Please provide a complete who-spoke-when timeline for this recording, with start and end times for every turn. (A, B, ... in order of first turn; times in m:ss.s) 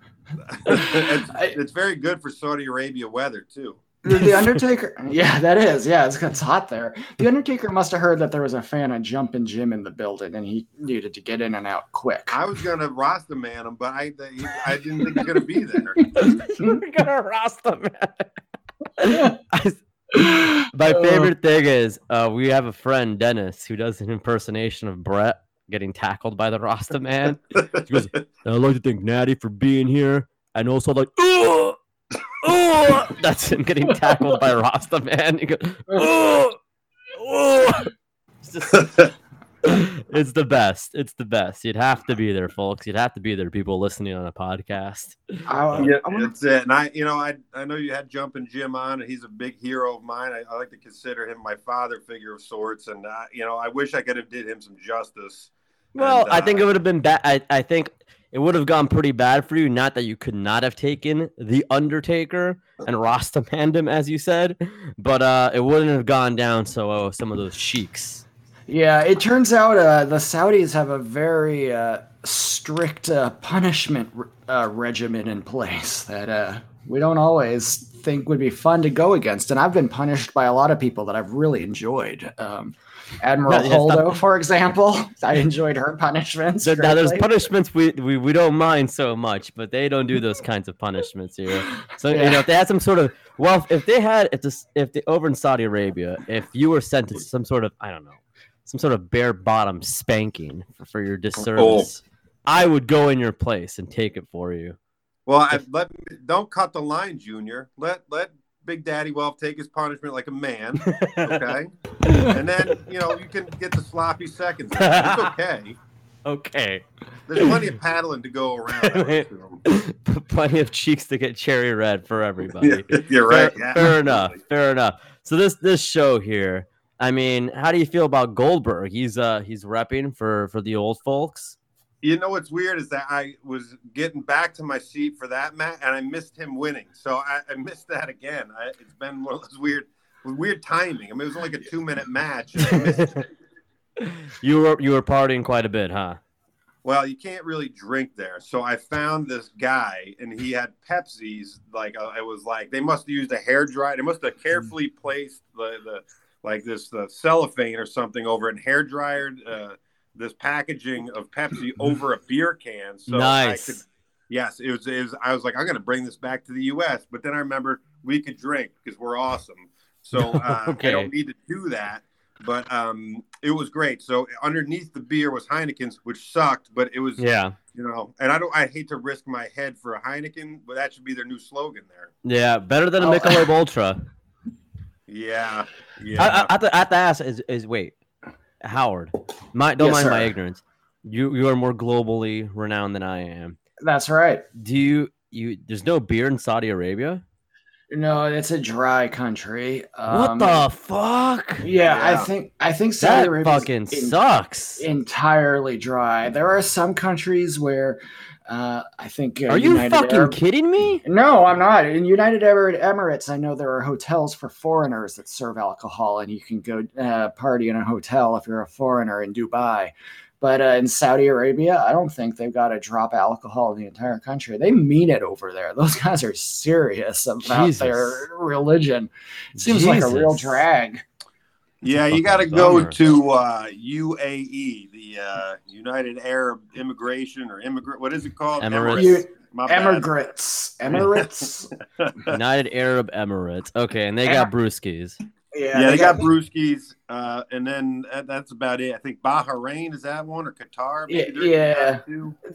0:00.5-0:03.8 A
0:00.7-0:01.6 B
0:04.0-0:12.4 B
0:04.1-0:04.6 C
0:12.3-0:16.0 A
0:16.2-0:18.3 C
0:19.0-0:31.8 C
0:19.1-0:19.4 B
0:20.2-0:21.3 B
0:32.4-0:36.6 C
0:37.2-0:37.9 C
0:38.4-0:39.0 C
0:39.6-0:45.9 C
0:45.5-0:46.3 B
0:45.8-0:56.7 A
0:56.0-1:08.2 C
1:08.7-1:27.3 B
1:23.5-1:24.2 C
1:26.6-1:44.8 C
1:32.1-1:32.4 B
1:41.4-1:41.9 A
1:45.3-1:55.8 A
1:50.8-1:52.7 C
1:54.8-1:55.3 C
1:56.2-1:57.7 C
1:57.3-1:59.6 A
1:58.8-2:11.6 C
2:02.6-2:04.4 A
2:12.0-2:23.1 A
2:22.7-2:23.2 C
2:24.0-2:26.2 C
2:26.8-3:02.1 A
2:43.1-2:43.8 C
2:50.1-2:51.1 C
2:57.2-2:57.6 C
3:02.2-3:04.0 C
3:03.0-3:03.5 B
3:05.1-3:06.5 A
3:06.2-3:08.0 C
3:08.6-3:13.6 C
3:09.8-3:10.3 B
3:13.8-3:14.4 B
3:14.6-3:17.2 C
3:17.9-3:20.6 B
3:20.1-3:21.7 C
3:21.6-3:24.2 B
3:21.8-3:22.3 A
3:23.0-3:24.9 C
3:24.8-3:30.4 B
3:29.5-3:31.0 C
3:31.0-3:51.0 B
3:47.4-3:48.3 C
3:49.6-3:50.6 C
3:51.8-4:00.1 A
3:51.9-3:53.0 C
3:58.6-3:59.2 C
3:58.9-4:01.7 B
4:00.9-4:01.2 A
4:02.0-4:02.4 A
4:02.3-4:05.2 C
4:04.2-4:04.5 B
4:05.5-4:06.3 B
4:05.7-4:12.4 A
4:11.1-4:12.0 B